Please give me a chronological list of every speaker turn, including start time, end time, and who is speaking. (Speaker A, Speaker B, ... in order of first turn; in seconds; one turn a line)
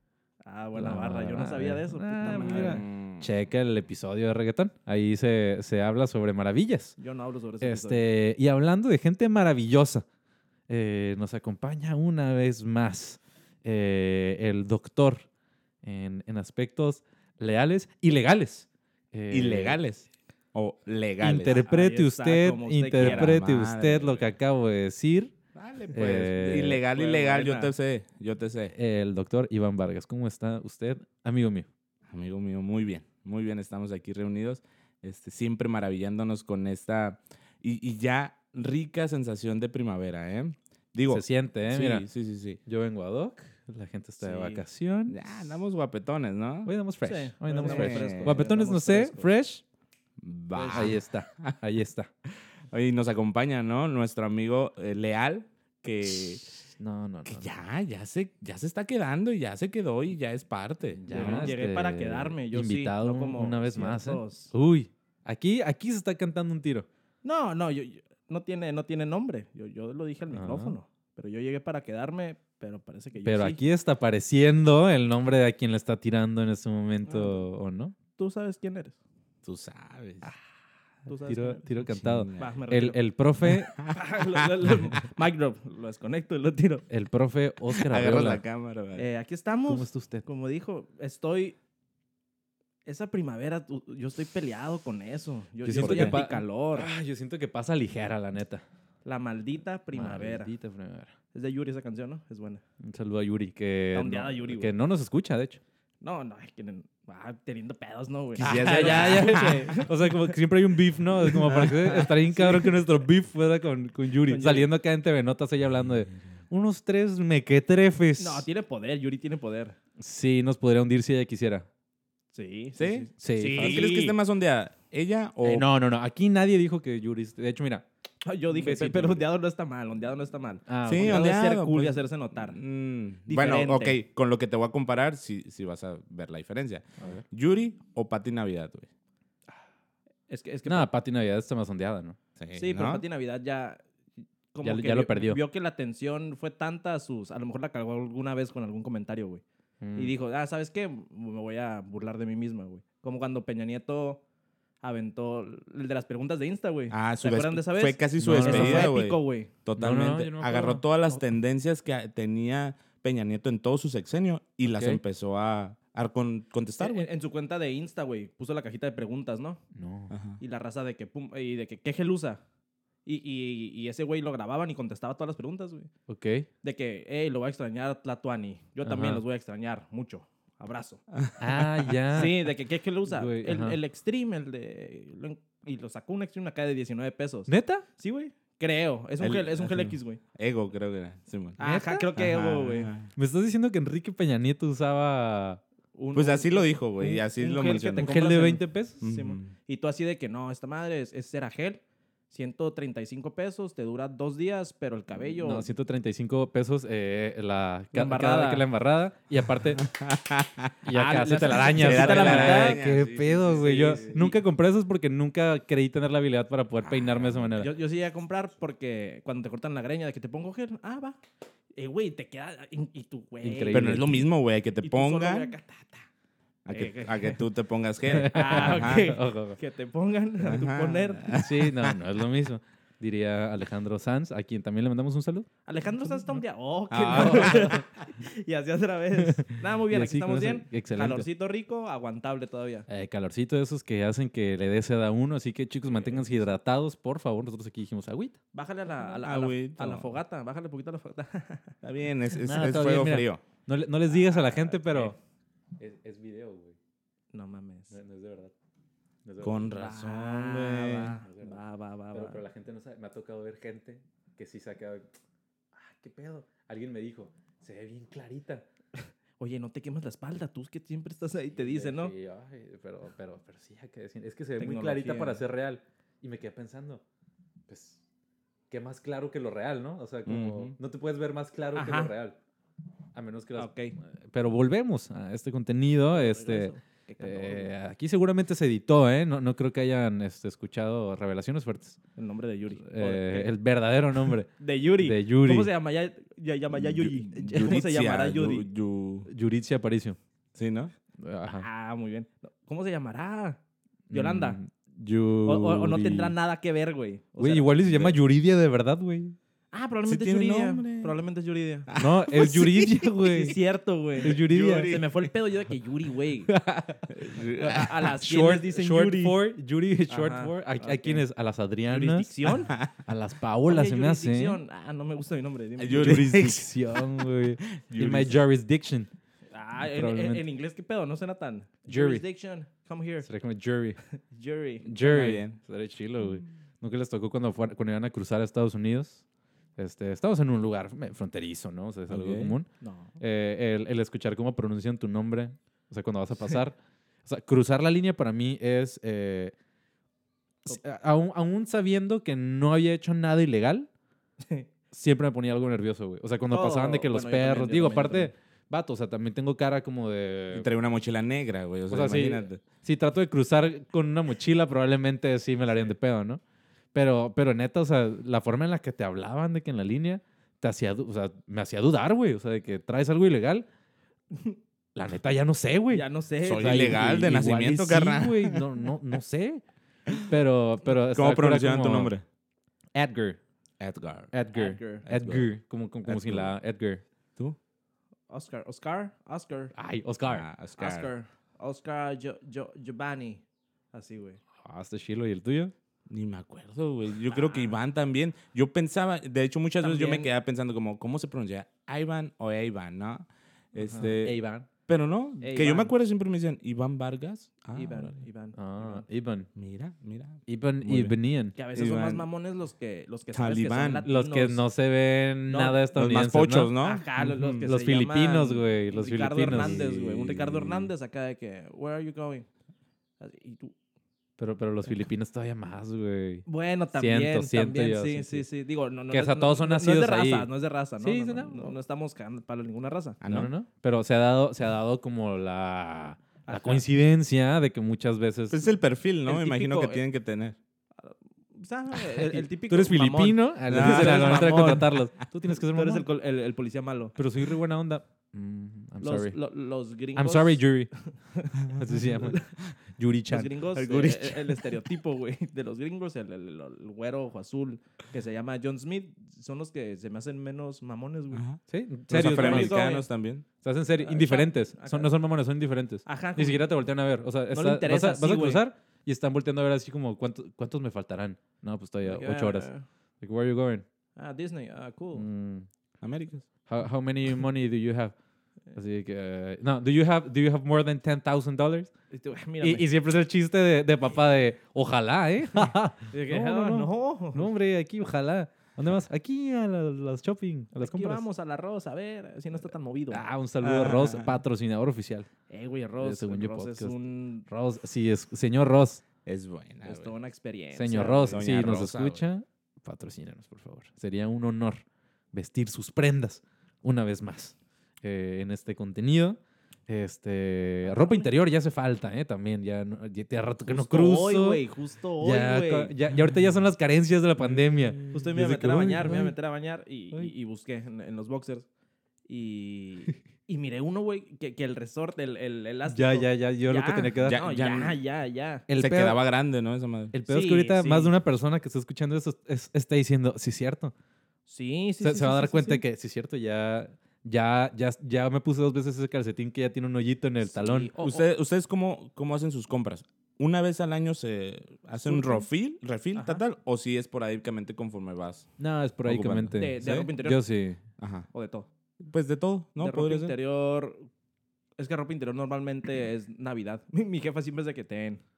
Speaker A: 0.4-2.8
Speaker B: 0.7-7.0
Speaker C: 2.4-3.3
Speaker A: 7.0-8.0
Speaker B: 7.6-10.0
Speaker B: 10.7-15.2
Speaker B: 15.8-19.8
Speaker C: 19.3-21.6
Speaker B: 21.2-25.3
Speaker A: 21.5-23.4
Speaker C: 23.0-24.3
Speaker C: 25.5-28.7
Speaker B: 25.9-26.8
Speaker A: 26.2-27.7
Speaker B: 28.7-31.7
Speaker C: 32.1-42.6
Speaker B: 41.1-42.1
Speaker B: 42.6-45.2
Speaker A: 44.2-44.6
Speaker C: 45.1-46.7
Speaker B: 46.6-49.6
Speaker A: 47.0-49.3
Speaker C: 47.6-48.4
Speaker C: 50.2-51.5
Speaker A: 50.5-51.0
Speaker B: 50.7-52.1
Speaker C: 52.7-56.5
Speaker B: 56.8-57.5
Speaker C: 57.2-61.5
Speaker B: 61.0-66.8
Speaker A: 61.1-64.5
Speaker A: 67.2-73.6
Speaker B: 70.3-70.8
Speaker B: 73.2-78.0
Speaker A: 77.0-77.5
Speaker A: 78.2-79.0
Speaker C: 79.4-80.3
Speaker A: 81.0-83.0
Speaker B: 81.3-83.8
Speaker C: 81.9-82.5
Speaker C: 83.8-84.5
Speaker A: 83.8-86.8
Speaker B: 86.9-88.4
Speaker C: 87.7-89.1
Speaker A: 89.0-91.6
Speaker B: 89.7-90.2
Speaker A: 92.8-96.9
Speaker B: 95.6-98.6
Speaker C: 95.7-96.3
Speaker A: 99.0-100.5
Speaker B: 99.9-101.1
Speaker A: 101.3-102.6
Speaker B: 102.8-105.6
Speaker A: 103.9-104.7
Speaker A: 106.0-110.4
Speaker C: 108.4-109.8
Speaker B: 108.4-118.5
Speaker C: 111.3-112.1
Speaker A: 112.4-112.7
Speaker A: 114.2-114.7
Speaker A: 118.2-119.8
Speaker B: 120.0-121.7
Speaker A: 122.3-124.1
Speaker C: 122.8-125.7
Speaker B: 123.2-124.1
Speaker B: 125.4-127.8
Speaker A: 128.2-132.6
Speaker B: 128.5-129.3
Speaker B: 130.7-131.3
Speaker C: 130.8-138.9
Speaker A: 133.2-133.9
Speaker A: 140.3-140.9
Speaker B: 140.7-142.2
Speaker C: 142.4-143.0
Speaker A: 142.5-143.8
Speaker A: 144.5-149.4
Speaker B: 144.6-145.4
Speaker B: 149.8-150.1
Speaker A: 149.9-154.2
Speaker A: 154.8-159.5
Speaker C: 156.9-167.0
Speaker B: 158.2-158.9
Speaker B: 159.8-160.8
Speaker B: 164.7-165.0
Speaker A: 166.8-169.6
Speaker B: 169.7-170.1
Speaker C: 170.1-170.4
Speaker A: 170.4-172.4
Speaker A: 173.0-175.9
Speaker B: 176.1-176.5
Speaker A: 176.6-181.0
Speaker B: 178.8-179.2
Speaker C: 181.1-182.0
Speaker B: 181.4-182.4
Speaker A: 182.1-190.2
Speaker B: 183.1-183.8
Speaker B: 187.5-187.8
Speaker C: 189.2-191.6
Speaker A: 191.6-192.9
Speaker B: 191.6-192.1
Speaker C: 192.1-193.1
Speaker B: 193.1-195.6
Speaker A: 195.9-201.8
Speaker C: 196.1-198.1
Speaker B: 197.4-199.1
Speaker C: 199.0-199.5
Speaker A: 202.3-205.7
Speaker B: 205.4-209.9
Speaker A: 207.9-208.7
Speaker C: 209.8-210.7
Speaker B: 210.8-217.7
Speaker A: 210.9-212.8
Speaker C: 211.3-214.3
Speaker A: 213.7-214.3
Speaker C: 216.8-217.5
Speaker A: 217.6-221.2
Speaker A: 221.7-224.1
Speaker B: 223.4-224.3
Speaker C: 223.7-225.5
Speaker A: 224.8-226.1
Speaker C: 226.6-229.1
Speaker A: 226.7-227.4
Speaker B: 228.1-229.6
Speaker A: 228.1-231.3
Speaker C: 230.4-231.9
Speaker B: 231.3-235.5
Speaker A: 235.7-242.9
Speaker C: 236.9-237.9
Speaker B: 239.9-241.3
Speaker B: 242.9-248.4
Speaker A: 245.9-246.4
Speaker A: 248.5-251.7
Speaker C: 249.1-250.2
Speaker C: 251.8-253.4
Speaker B: 252.4-255.2
Speaker A: 254.3-255.1
Speaker B: 255.8-256.8
Speaker A: 257.3-257.9
Speaker B: 257.9-258.5
Speaker B: 259.2-259.7
Speaker C: 259.4-261.2
Speaker A: 259.7-262.4
Speaker B: 261.2-261.6
Speaker B: 262.1-265.1
Speaker B: 265.7-268.6
Speaker A: 268.9-272.1
Speaker B: 271.5-277.0
Speaker A: 274.6-275.4
Speaker B: 277.7-278.0
Speaker B: 278.7-282.4
Speaker C: 280.2-280.8
Speaker A: 281.7-282.1
Speaker B: 283.1-292.0
Speaker A: 283.6-284.0
Speaker A: 286.1-287.7
Speaker A: 292.2-293.5
Speaker B: 292.8-294.5
Speaker A: 294.6-298.6
Speaker B: 295.0-295.7
Speaker C: 296.8-299.3
Speaker B: 297.3-297.8
Speaker B: 299.3-300.2
Speaker C: 300.5-300.9
Speaker B: 301.2-301.7
Speaker A: 301.4-303.6
Speaker B: 304.1-306.3
Speaker A: 304.1-304.6
Speaker A: 305.4-308.0
Speaker B: 307.4-309.4
Speaker A: 309.7-311.9
Speaker C: 310.1-311.1
Speaker C: 311.9-313.1
Speaker B: 311.9-313.6
Speaker A: 313.4-316.5
Speaker B: 314.2-315.0
Speaker C: 314.3-315.3
Speaker B: 316.5-324.6
Speaker C: 317.1-318.0
Speaker A: 317.6-319.4
Speaker A: 320.1-321.2
Speaker A: 321.9-322.7
Speaker A: 323.6-326.4
Speaker C: 325.8-328.4
Speaker B: 325.9-329.1
Speaker A: 329.5-333.3
Speaker B: 329.9-330.4
Speaker B: 331.9-332.2
Speaker B: 333.2-334.0
Speaker A: 334.1-334.9
Speaker B: 334.8-339.2
Speaker C: 335.0-335.6
Speaker B: 339.8-342.7
Speaker C: 342.1-342.5
Speaker A: 342.8-343.2
Speaker B: 343.2-349.5
Speaker B: 350.6-353.9
Speaker A: 354.4-354.7
Speaker B: 354.9-360.7
Speaker A: 356.5-358.3
Speaker C: 360.5-362.6
Speaker B: 361.9-366.4
Speaker B: 366.9-373.6
Speaker B: 374.9-382.1
Speaker A: 375.9-377.1
Speaker C: 376.4-378.7
Speaker C: 381.1-382.2
Speaker B: 382.9-383.4
Speaker C: 383.8-384.3
Speaker B: 384.3-387.0
Speaker A: 384.5-385.0
Speaker C: 385.1-385.5
Speaker C: 386.1-386.5
Speaker A: 388.3-389.7
Speaker B: 389.7-390.5
Speaker C: 390.3-391.1
Speaker A: 390.8-393.4
Speaker A: 393.9-394.4
Speaker B: 394.6-395.7
Speaker C: 396.1-404.4
Speaker A: 397.3-397.8
Speaker A: 399.8-400.3
Speaker A: 403.8-404.1
Speaker B: 404.0-404.7
Speaker C: 404.9-408.1
Speaker A: 405.4-405.9
Speaker A: 407.7-409.1
Speaker B: 408.5-409.5
Speaker C: 409.5-411.1
Speaker B: 410.4-411.5
Speaker A: 411.6-414.6
Speaker C: 411.7-412.2
Speaker C: 413.3-414.1
Speaker B: 414.1-416.7
Speaker A: 415.5-415.8
Speaker C: 415.9-417.7
Speaker A: 416.8-422.5
Speaker B: 417.6-419.9
Speaker C: 419.5-420.9
Speaker A: 423.2-423.7
Speaker B: 424.4-426.4
Speaker A: 426.4-433.2
Speaker B: 426.9-428.4
Speaker B: 429.1-430.5
Speaker B: 431.0-431.8
Speaker C: 433.2-433.5
Speaker B: 433.2-438.6
Speaker A: 436.4-436.8
Speaker C: 438.5-440.6
Speaker A: 439.2-440.0
Speaker A: 441.0-444.9
Speaker B: 442.0-446.1
Speaker C: 443.7-444.9
Speaker A: 445.6-447.2
Speaker B: 447.1-449.4
Speaker A: 449.0-452.4
Speaker B: 450.1-450.9
Speaker B: 451.5-454.6
Speaker A: 453.3-461.4
Speaker C: 461.3-463.4
Speaker B: 461.7-462.8
Speaker A: 462.1-463.1
Speaker B: 463.6-472.7
Speaker A: 464.0-465.1
Speaker A: 466.1-466.8
Speaker A: 467.5-468.6
Speaker A: 472.0-472.8
Speaker B: 473.2-473.9
Speaker A: 474.1-475.2
Speaker B: 475.1-475.7
Speaker C: 476.0-476.4
Speaker B: 476.7-478.1
Speaker B: 478.7-481.9
Speaker A: 482.1-482.8
Speaker B: 482.6-491.2
Speaker A: 486.1-487.5
Speaker A: 490.8-493.3
Speaker B: 493.1-495.3
Speaker C: 493.6-494.3
Speaker A: 495.5-497.5
Speaker B: 496.0-496.9
Speaker B: 497.5-499.0
Speaker C: 499.2-500.1
Speaker A: 499.8-501.4
Speaker B: 500.7-514.6
Speaker C: 501.2-502.2
Speaker A: 510.8-511.3
Speaker A: 513.7-515.9
Speaker B: 515.2-519.3
Speaker A: 518.1-521.6
Speaker A: 522.3-528.7
Speaker B: 525.9-527.4
Speaker C: 527.2-528.0
Speaker B: 528.7-529.2
Speaker C: 528.8-530.1
Speaker B: 530.1-533.9
Speaker A: 530.3-531.1
Speaker A: 534.5-535.8
Speaker B: 535.0-540.9
Speaker A: 540.5-541.2
Speaker C: 541.0-548.5
Speaker A: 545.1-545.4
Speaker A: 546.1-546.4
Speaker B: 548.6-550.8
Speaker C: 549.0-550.1
Speaker A: 549.6-550.4
Speaker C: 551.0-551.3
Speaker A: 551.3-551.7
Speaker C: 552.0-553.4
Speaker A: 552.8-554.1
Speaker A: 554.8-558.2